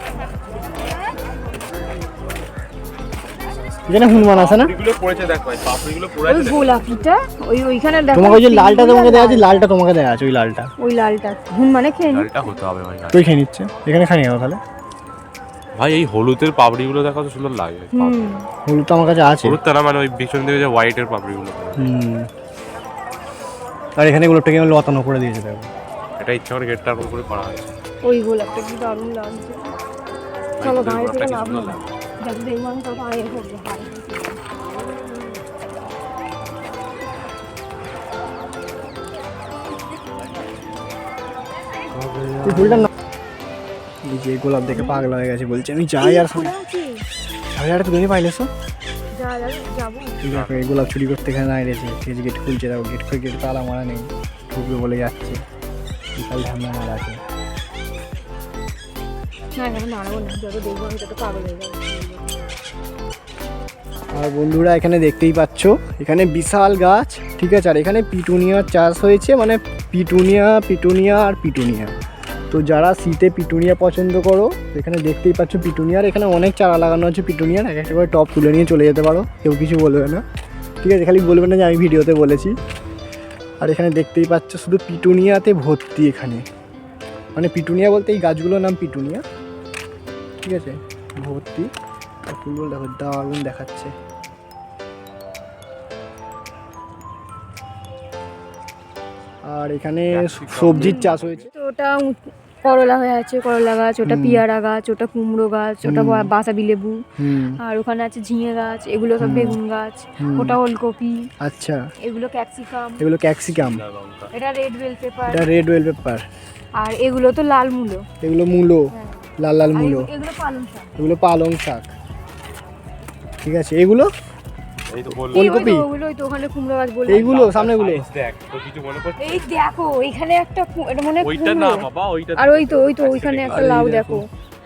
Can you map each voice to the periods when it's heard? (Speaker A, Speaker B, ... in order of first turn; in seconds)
Speaker A: 3.9-4.7, 8.1-10.7, 13.1-14.6, 18.7-19.6, 21.8-22.3, 24.0-25.7, 42.4-42.9, 44.1-46.5, 47.6-48.5, 50.2-55.4, 56.2-57.2, 64.2-71.9, 72.5-80.2, 80.8-82.5, 83.6-86.4, 87.4-89.2, 90.4-91.7, 92.3-93.9, 99.5-101.5, 104.0-104.4, 105.8-106.3, 107.2-107.6, 109.2-109.6, 110.2-110.6, 111.4-111.8, 113.0-113.8, 115.3-116.2, 118.2-118.9, 119.4-120.1, 121.0-121.9, 123.5-124.1, 125.3-125.9, 127.1-128.1, 133.5-134.2
Speaker B: 4.2-6.7, 12.1-13.3, 15.8-18.4, 19.4-21.9, 26.2-27.7, 30.6-31.8, 41.9-42.9, 50.2-50.9, 100.1-101.5, 113.5-114.3, 124.9-125.7, 127.1-129.4, 131.2-133.8
Speaker C: 6.3-9.6, 10.8-12.3, 17.9-18.4, 28.0-29.7, 30.6-34.4, 44.7-45.1, 46.0-47.0, 49.1-50.3, 59.5-62.3, 100.7-107.0, 107.6-111.3, 112.0-113.0, 114.3-115.5, 116.8-118.0, 118.9-120.9, 125.3-127.4, 129.2-134.2